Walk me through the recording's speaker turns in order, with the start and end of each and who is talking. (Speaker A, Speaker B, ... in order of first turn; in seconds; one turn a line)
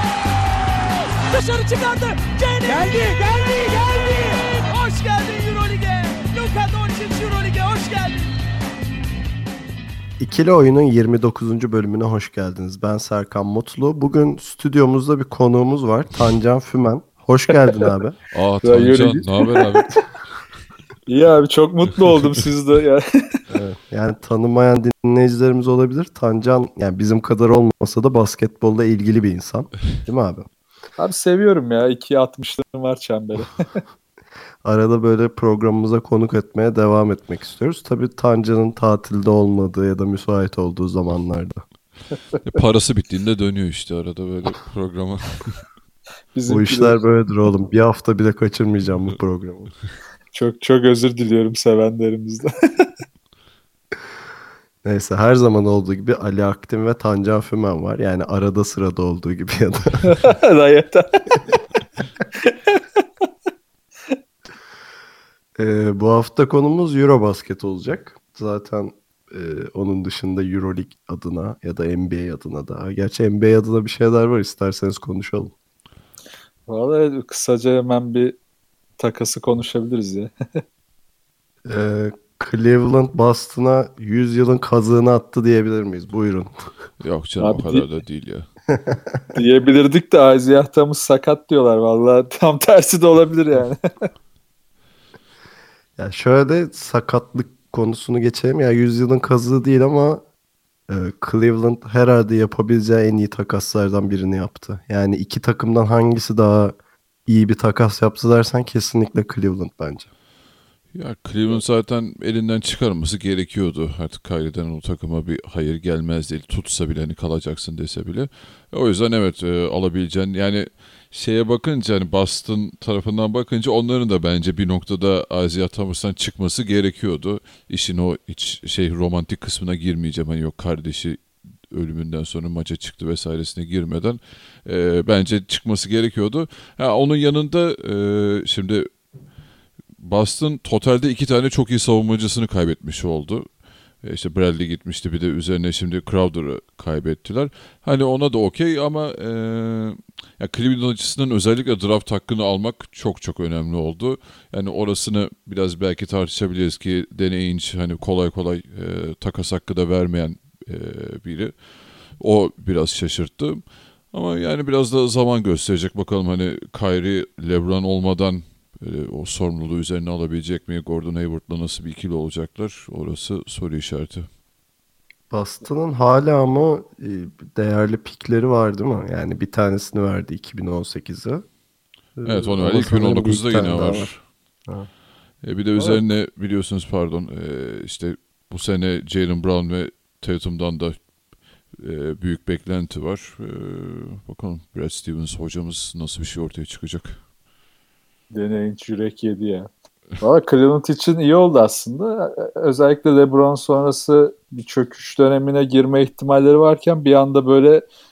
Speaker A: 1.1-8.3
Speaker B: 10.2-18.2
Speaker C: 18.3-20.0
Speaker D: 18.6-19.7
Speaker D: 21.1-23.0
Speaker B: 23.5-30.5
Speaker D: 31.0-33.6
Speaker B: 34.6-41.6
Speaker C: 42.5-45.6
Speaker D: 46.4-47.0
Speaker B: 46.5-49.7
Speaker D: 50.3-52.9
Speaker B: 54.8-60.3
Speaker D: 60.1-61.4
Speaker D: 62.5-63.0
Speaker B: 65.6-75.5
Speaker D: 76.7-78.4
Speaker D: 79.0-80.3
Speaker B: 81.7-86.5
Speaker C: 87.0-88.5
Speaker D: 87.4-87.9
Speaker B: 88.8-89.2
Speaker D: 89.3-94.1
Speaker B: 96.0-100.2
Speaker B: 100.9-110.1
Speaker C: 110.9-138.9
Speaker C: 140.0-174.3
Speaker B: 175.3-181.5
Speaker B: 182.2-184.1
Speaker C: 182.2-184.2
Speaker C: 185.4-191.0
Speaker C: 191.8-197.2
Speaker D: 198.3-199.7
Speaker D: 200.2-207.8